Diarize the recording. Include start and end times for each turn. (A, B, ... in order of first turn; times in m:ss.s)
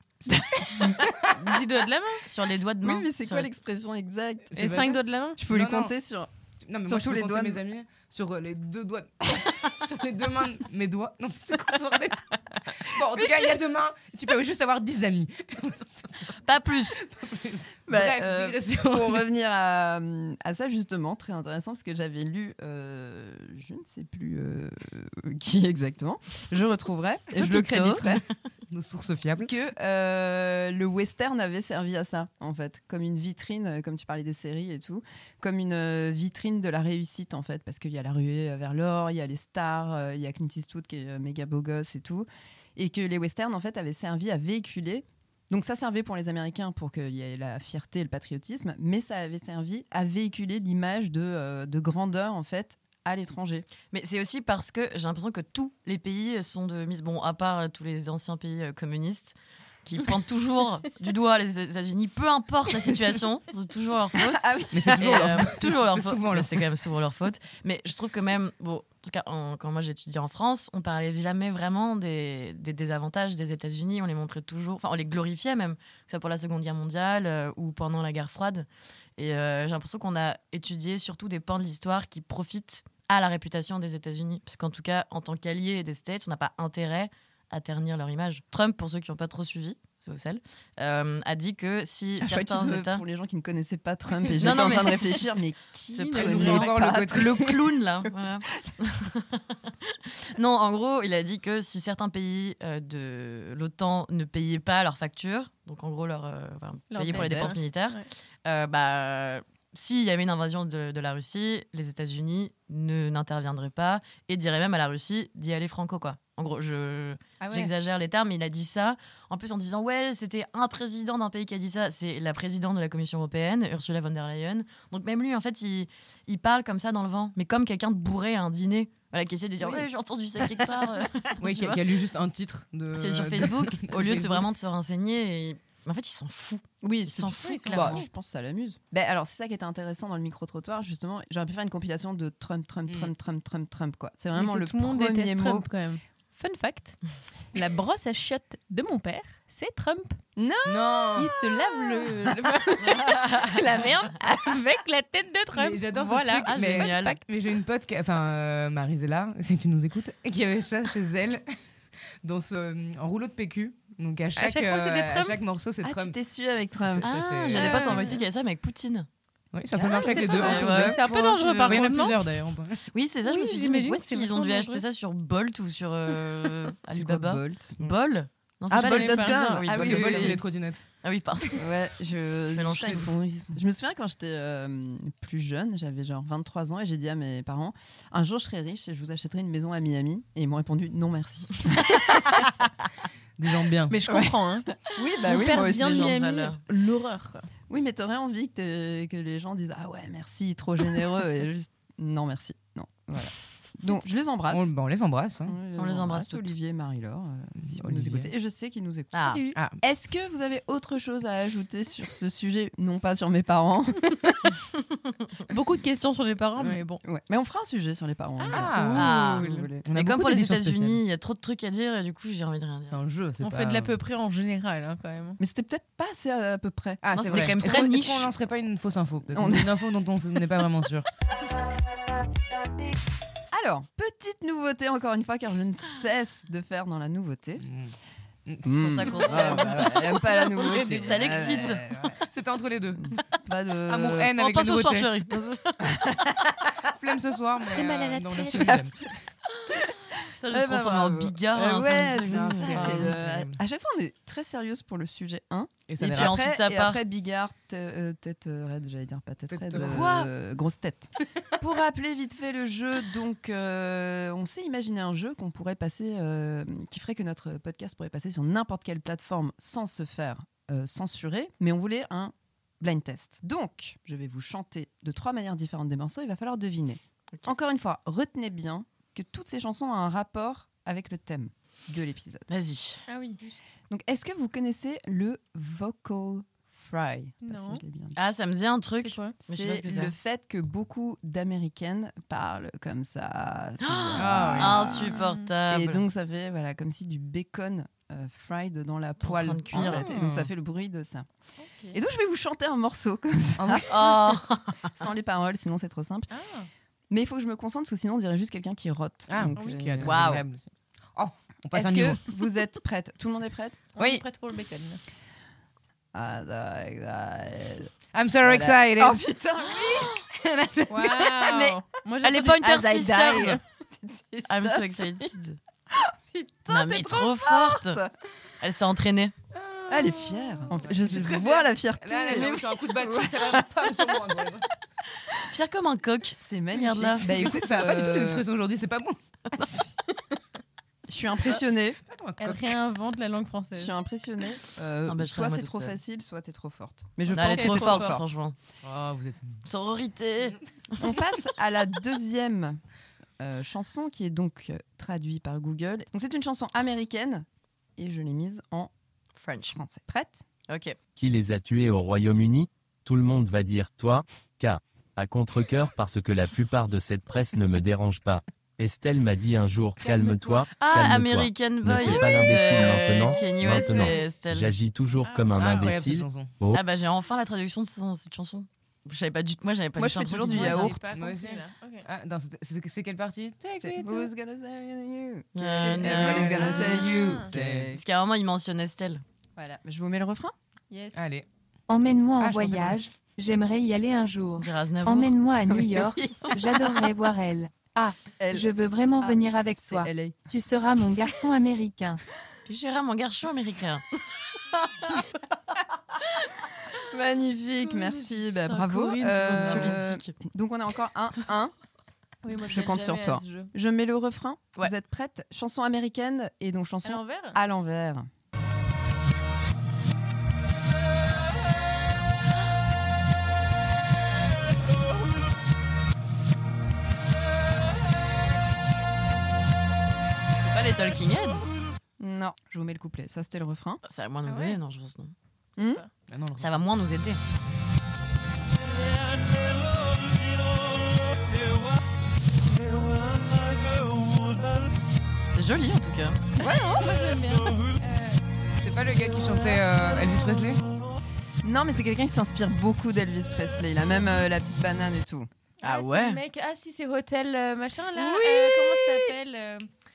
0:00.3-0:00.7 A
0:01.3-0:02.2 B
0:02.2-0:03.5 C
0:02.8-0:04.5 D
0:04.5-0:05.9 A
0:04.6-0:05.4 B
0:05.4-0:06.3 D
0:06.7-0:19.3 A
0:06.8-0:07.6 D
0:16.4-0:17.0 C
0:17.9-0:28.2 D
0:27.3-0:28.2 C
0:28.7-0:29.5 A
0:29.4-0:53.6 D
0:53.9-1:33.0 C
1:04.2-1:05.4 D
1:04.7-1:06.6 A
1:32.2-1:37.6 D
1:34.4-1:35.2 C
1:35.9-2:11.8 C
1:36.1-1:37.4 A
1:46.9-1:48.0 B
1:47.1-1:47.5 D
1:57.4-1:57.7 D
2:11.4-2:14.5 A
2:12.9-2:18.0 C
2:16.8-2:25.7 D
2:17.4-2:18.0 B
2:24.3-2:27.0 B
2:27.5-2:30.2 B
2:30.4-2:32.1 D
2:30.6-2:31.3 A
2:31.2-2:37.2 B
2:32.8-2:33.6 C
2:35.5-2:41.4 A
2:36.4-2:37.2 C
2:42.2-2:46.2 A
2:44.4-2:45.4 B
2:45.8-2:47.1 D
2:46.8-2:48.1 A
2:47.0-2:49.0 C
2:47.6-2:48.2 B
2:49.5-2:52.9 A
2:50.0-2:51.8 C
2:50.0-2:52.2 B
2:52.9-3:00.4 C
2:53.2-2:54.8 B
2:56.9-2:57.7 D
2:58.7-3:00.8 A
2:58.8-3:00.4 D
2:59.0-2:59.4 B
3:01.0-3:01.6 C
3:01.6-3:12.5 D
3:02.5-3:03.1 C
3:13.4-3:14.0 A
3:13.9-3:17.5 B
3:14.1-3:16.1 D
3:15.3-3:16.6 C
3:17.7-3:24.7 D
3:24.5-3:25.6 A
3:25.4-3:29.2 D
3:25.8-3:26.5 C
3:27.6-3:28.3 A
3:29.1-3:29.5 C
3:29.2-3:29.5 B
3:29.8-3:34.1 D
3:35.5-3:37.0 B
3:37.0-3:39.8 D
3:38.4-3:38.7 B
3:38.5-3:41.0 A
3:38.9-3:43.0 C
3:42.9-3:43.9 A
3:43.4-3:45.4 B
3:45.4-3:47.6 D
3:47.0-3:51.0 A
3:47.1-3:48.3 C
3:49.3-3:49.8 D
3:53.5-3:57.6 D
3:57.6-3:57.9 A
3:58.6-4:02.2 D
3:58.8-4:01.8 C
3:59.4-3:59.8 A
4:02.3-4:03.2 A
4:03.0-4:04.3 D
4:03.9-4:05.1 A
4:04.3-4:05.8 C
4:05.9-4:06.4 D
4:06.9-4:09.1 A
4:07.7-4:08.8 B
4:10.4-4:13.1 C
4:10.5-4:42.5 D
4:12.2-4:13.6 A
4:15.9-4:16.4 A
4:16.0-4:17.0 C
4:19.5-4:20.2 A
4:19.7-4:20.3 C
4:42.5-4:43.0 C
4:43.1-4:43.4 B
4:43.9-4:48.2 D
4:47.4-4:47.8 B
4:48.2-4:50.1 C
4:49.0-4:49.3 B
4:49.4-4:55.1 D
4:53.8-4:56.0 C
4:54.2-4:54.8 A
4:55.0-4:55.5 B
4:55.7-5:01.3 D
4:59.2-5:00.1 C
4:59.7-5:00.5 A
5:01.6-5:02.0 B
5:01.9-5:04.2 D
5:03.6-5:03.9 A
5:03.9-5:04.9 C
5:04.9-5:06.3 D
5:06.3-5:06.7 B
5:07.1-5:10.2 D
5:09.3-5:12.3 A
5:09.6-5:09.8 B
5:10.0-5:10.4 C
5:11.7-5:13.8 D
5:13.9-5:15.0 B
5:14.0-5:14.2 A
5:16.1-5:17.9 D
5:18.1-5:19.2 A
5:18.4-5:20.1 D
5:20.3-5:21.6 A
5:20.9-5:23.6 B
5:22.2-5:23.6 C
5:23.9-5:25.2 D
5:24.5-5:25.6 C
5:25.9-5:28.1 D
5:26.7-5:28.0 C
5:28.6-5:29.3 C
5:29.6-5:34.6 A
5:29.9-5:33.7 D
5:35.5-5:37.3 C
5:36.3-5:38.4 D
5:37.3-5:39.2 A
5:41.1-5:42.0 D
5:42.0-5:42.8 A
5:42.4-5:43.9 B
5:43.7-5:48.2 D
5:45.0-5:46.0 C
5:47.3-5:48.6 C
5:47.3-5:48.2 B
5:48.8-5:49.6 A
5:49.6-5:51.0 C
5:51.0-5:52.8 D
5:53.4-5:57.4 D
5:58.0-5:58.9 D
5:59.4-5:59.8 C
5:59.7-6:00.4 D
6:00.7-6:01.0 C
6:01.2-6:16.8 E
6:10.8-6:14.7 C
6:12.0-6:12.7 B
6:13.4-6:14.2 B
6:15.2-6:15.9 B
6:15.6-6:16.5 A
6:16.7-6:20.9 C
6:20.0-6:21.0 D
6:20.5-6:22.0 B
6:20.5-6:24.3 A
6:23.8-6:28.0 D
6:25.5-6:26.9 C
6:25.9-6:27.9 A
6:26.6-6:27.5 B
6:27.9-6:29.2 C
6:29.6-6:30.5 D
6:30.9-6:31.2 B
6:31.1-6:31.4 A
6:31.9-6:42.2 F
6:32.4-6:33.0 A
6:34.6-6:37.0 C
6:38.4-6:38.7 D
6:39.2-6:40.4 D
6:42.6-6:44.0 C
6:46.9-6:51.7 D
6:47.9-6:50.4 C
6:52.4-6:53.7 B
6:52.7-6:58.3 D
6:57.0-6:57.6 B
7:10.6-7:11.7 C
7:12.2-7:14.0 D
7:14.0-7:15.3 C
7:14.5-7:14.8 B
7:15.8-7:16.1 B
7:16.3-7:16.7 A
7:16.6-7:17.4 C
7:25.5-7:26.4 C
7:26.6-7:27.1 D
7:26.8-7:28.4 B
7:28.8-7:30.8 A
7:31.6-7:35.5 D
7:35.8-7:39.9 B
7:35.8-7:36.4 C
7:38.2-7:39.0 C